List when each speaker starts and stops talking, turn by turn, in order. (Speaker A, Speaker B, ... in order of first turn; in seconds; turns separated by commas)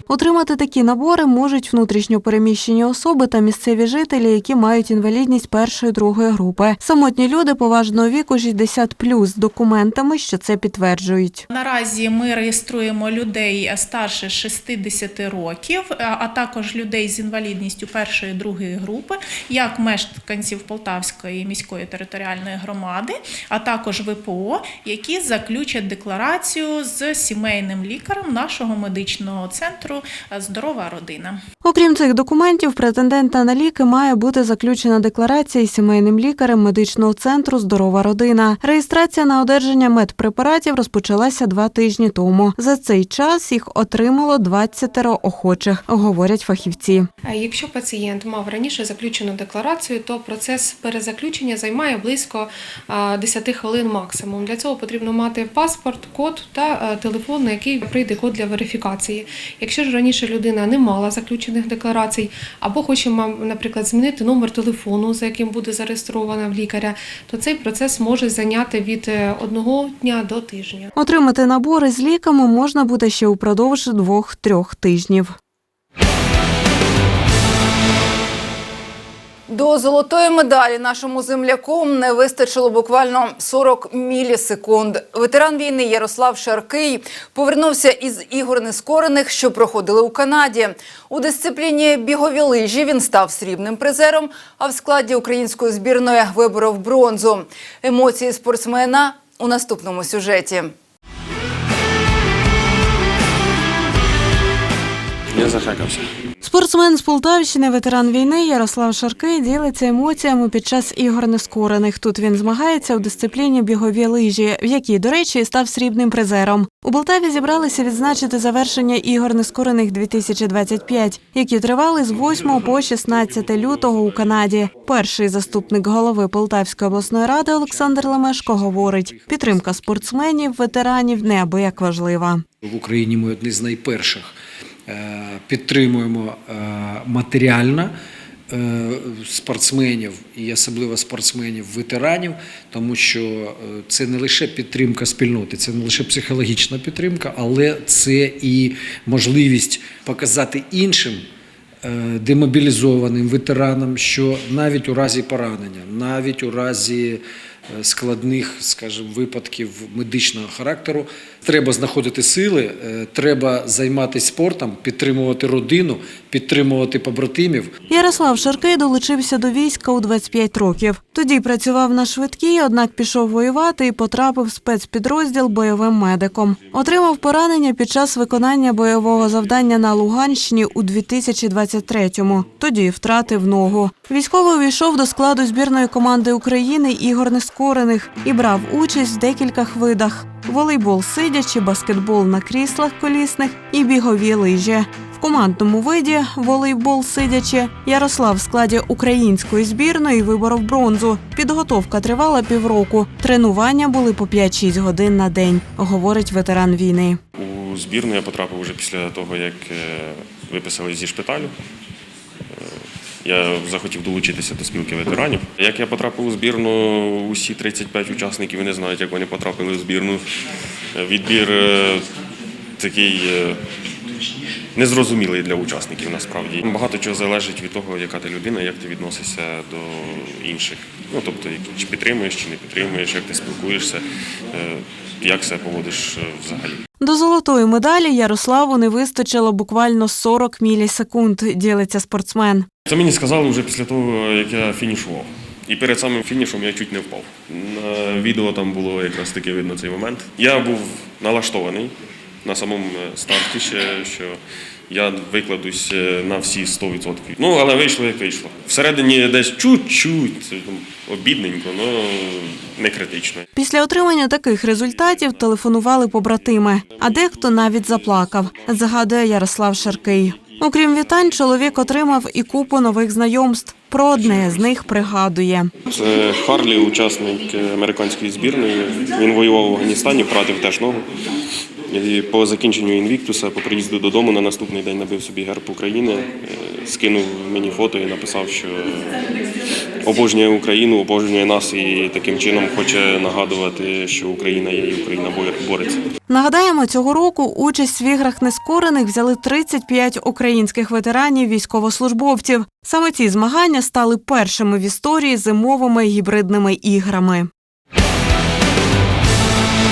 Speaker A: 0.1-11.4, Speaker B: 11.5-31.4, Speaker A: 31.6-47.1, Speaker C: 47.2-70.9, Speaker A: 71.0-75.3, Speaker D: 79.5-100.7, Speaker E: 105.3-106.0, Speaker A: 106.4-132.4, Speaker F: 127.7-130.2, Speaker F: 132.6-134.3, Speaker F: 134.9-137.9, Speaker F: 138.5-151.2, Speaker F: 151.8-167.7, Speaker A: 167.9-207.2, Speaker E: 207.3-211.5, Speaker E: 212.5-220.3, Speaker E: 220.9-222.0, Speaker E: 222.8-223.6, Speaker E: 224.7-234.0, Speaker E: 234.5-236.8, Speaker A: 237.0-242.7, Speaker E: 242.9-254.4, Speaker E: 254.9-263.4, Speaker A: 263.5-275.7, Speaker E: 266.9-269.1, Speaker E: 275.9-281.0, Speaker E: 281.9-289.1, Speaker E: 290.0-296.0, Speaker A: 296.3-307.5